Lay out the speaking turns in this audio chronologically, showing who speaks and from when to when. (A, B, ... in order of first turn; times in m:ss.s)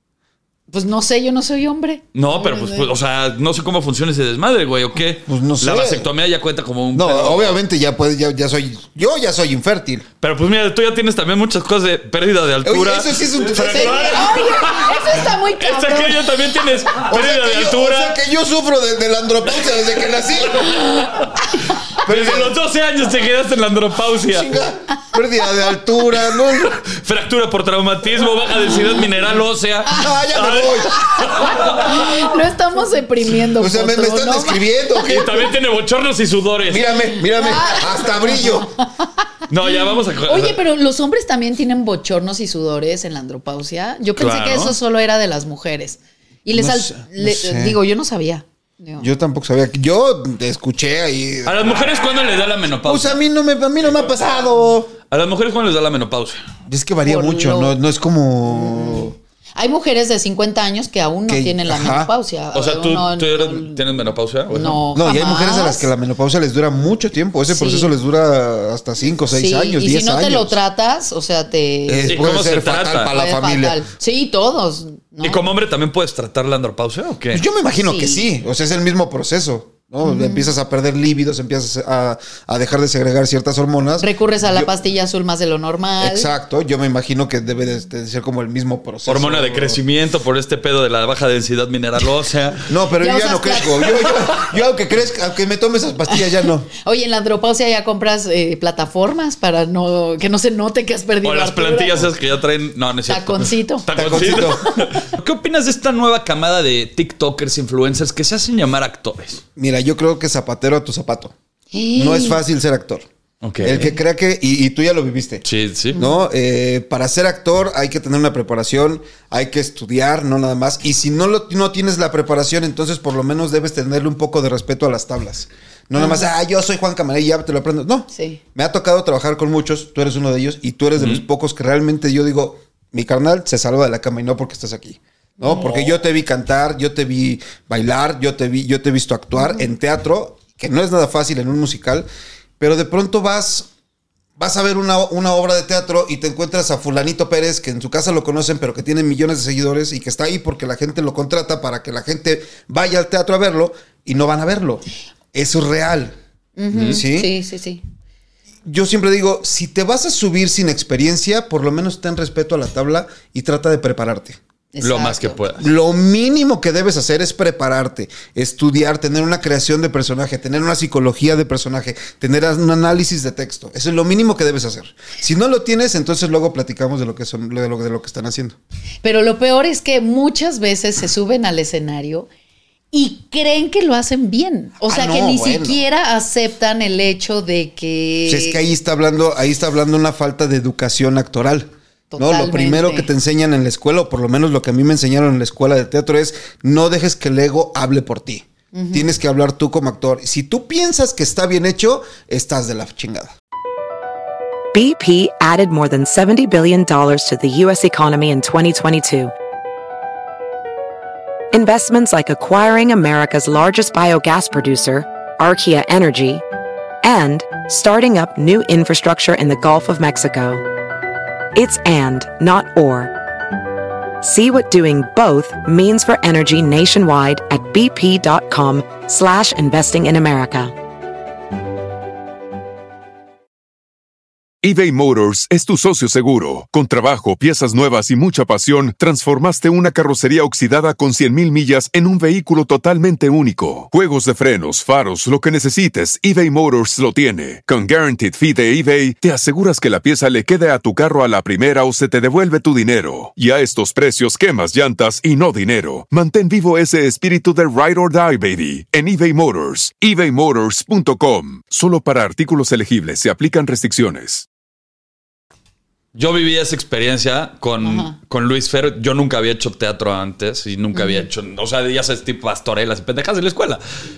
0:00.7-0:02.9 A
0:02.1-0:07.6 B
0:05.3-0:06.1 C
0:06.9-0:10.0 C
0:10.2-0:18.2 B
0:12.6-0:14.3 C
0:13.6-0:16.3 A
0:17.0-0:20.8 C
0:20.6-0:24.5 B
0:22.0-0:22.6 C
0:24.3-0:26.8 C
0:26.1-0:32.1 B
0:29.9-0:31.5 C
0:31.0-0:34.6 A
0:33.6-0:35.5 C
0:35.0-0:37.0 B
0:36.7-0:38.7 C
0:37.3-0:39.0 A
0:39.5-0:40.6 B
0:40.3-0:49.1 A
0:44.2-0:44.8 B
0:46.5-0:47.8 C
0:49.0-0:51.8 C
0:51.4-0:53.2 B
0:52.8-0:54.9 C
0:55.1-0:56.4 B
0:56.7-0:59.2 C
0:57.0-0:57.8 A
0:58.5-1:03.8 A
1:01.3-1:02.1 C
1:02.5-1:04.8 B
1:04.5-1:05.9 A
1:04.9-1:10.6 C
1:07.5-1:07.9 A
1:09.3-1:12.2 A
1:11.9-1:13.8 C
1:12.1-1:13.1 B
1:13.1-1:15.4 A
1:15.2-1:17.4 B
1:17.3-1:24.7 C
1:17.8-1:18.2 A
1:20.0-1:20.5 A
1:24.0-1:26.3 A
1:26.0-1:29.8 C
1:29.1-1:32.7 B
1:32.7-1:36.7 C
1:33.0-1:33.9 A
1:36.1-1:42.1 A
1:41.2-1:49.4 B
1:43.1-1:43.9 A
1:43.9-1:44.6 C
1:49.6-1:51.3 C
1:51.7-1:52.4 A
1:51.9-1:53.0 C
1:53.4-1:53.8 B
1:53.6-2:22.1 C
1:53.7-1:53.9 A
1:55.4-1:56.0 B
1:55.9-1:56.2 A
2:06.0-2:06.3 A
2:08.1-2:08.4 A
2:11.0-2:11.2 B
2:15.4-2:15.9 A
2:19.4-2:19.6 A
2:22.6-2:23.7 C
2:24.4-2:36.2 C
2:36.6-2:37.8 A
2:36.7-2:37.0 B
2:36.7-2:37.3 C
2:38.6-2:44.4 C
2:44.7-2:45.4 A
2:44.8-2:45.7 B
2:45.6-2:58.6 C
2:59.0-3:02.3 A
3:02.9-3:08.6 A
3:04.9-3:05.8 C
3:08.3-3:23.3 C
3:12.1-3:13.1 A
3:18.7-3:19.1 A
3:24.7-3:29.3 D
3:31.5-3:36.4 D
3:37.0-3:40.6 D
3:41.5-3:43.1 D
3:44.2-3:50.7 D
3:54.6-4:24.4 E
4:26.1-4:33.8 B
4:27.8-4:28.1 A
4:30.9-4:31.2 A